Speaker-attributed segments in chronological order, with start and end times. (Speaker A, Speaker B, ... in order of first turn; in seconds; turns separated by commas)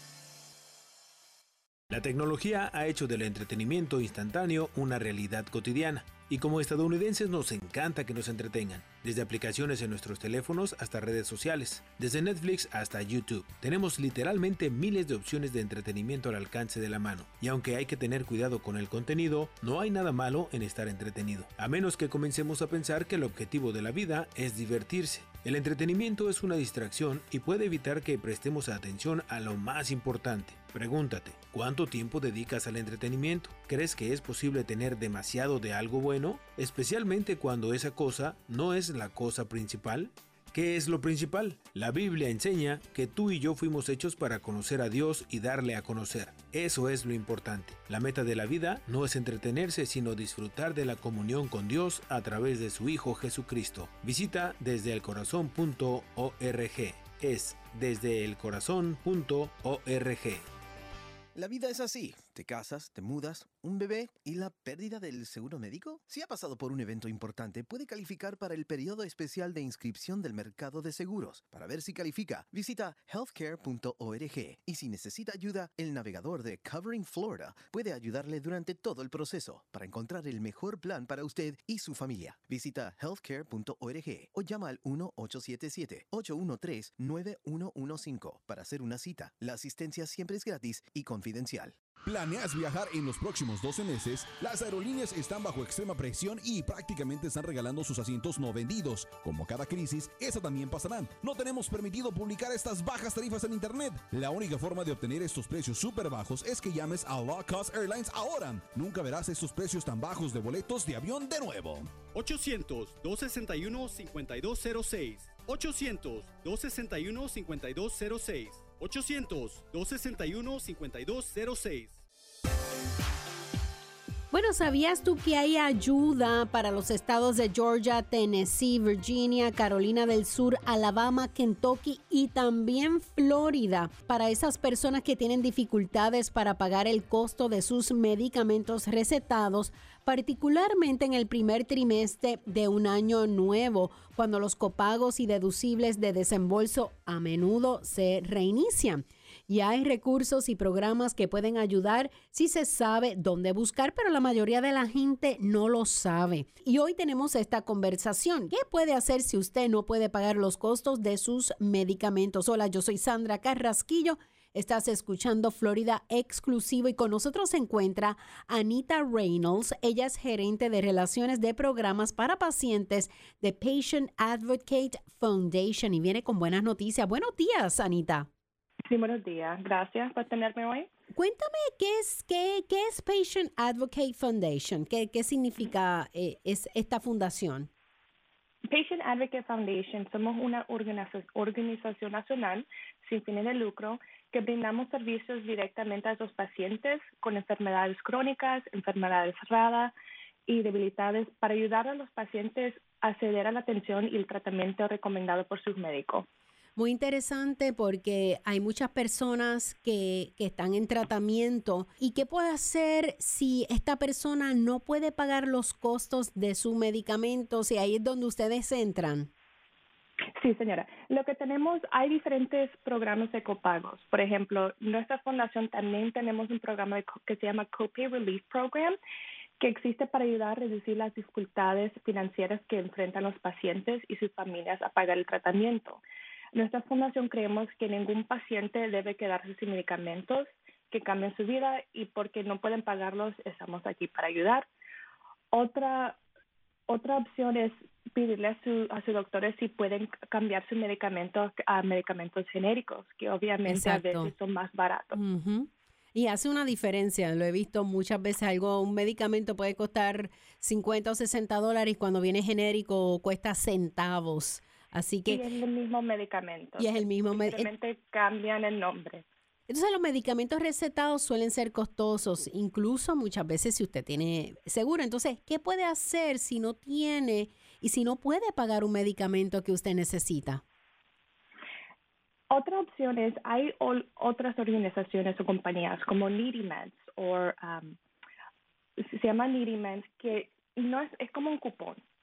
Speaker A: 1.9-60.5, Speaker B: 61.3-91.7, Speaker C: 92.0-112.0, Speaker D: 112.1-122.0, Speaker E: 124.3-178.3, Speaker F: 178.9-180.9, Speaker E: 181.1-187.7, Speaker F: 188.7-199.9, Speaker F: 200.5-206.2, Speaker E: 206.8-219.3, Speaker F: 220.4-229.0, Speaker F: 229.6-236.0, Speaker F: 236.5-244.7, Speaker F: 245.5-246.2, Speaker F: 246.9-255.2, Speaker E: 253.7-254.3, Speaker E: 255.1-265.4, Speaker F: 265.3-269.2, Speaker E: 266.8-267.7, Speaker E: 269.7-280.6, Speaker F: 282.5-287.9, Speaker F: 289.0-292.0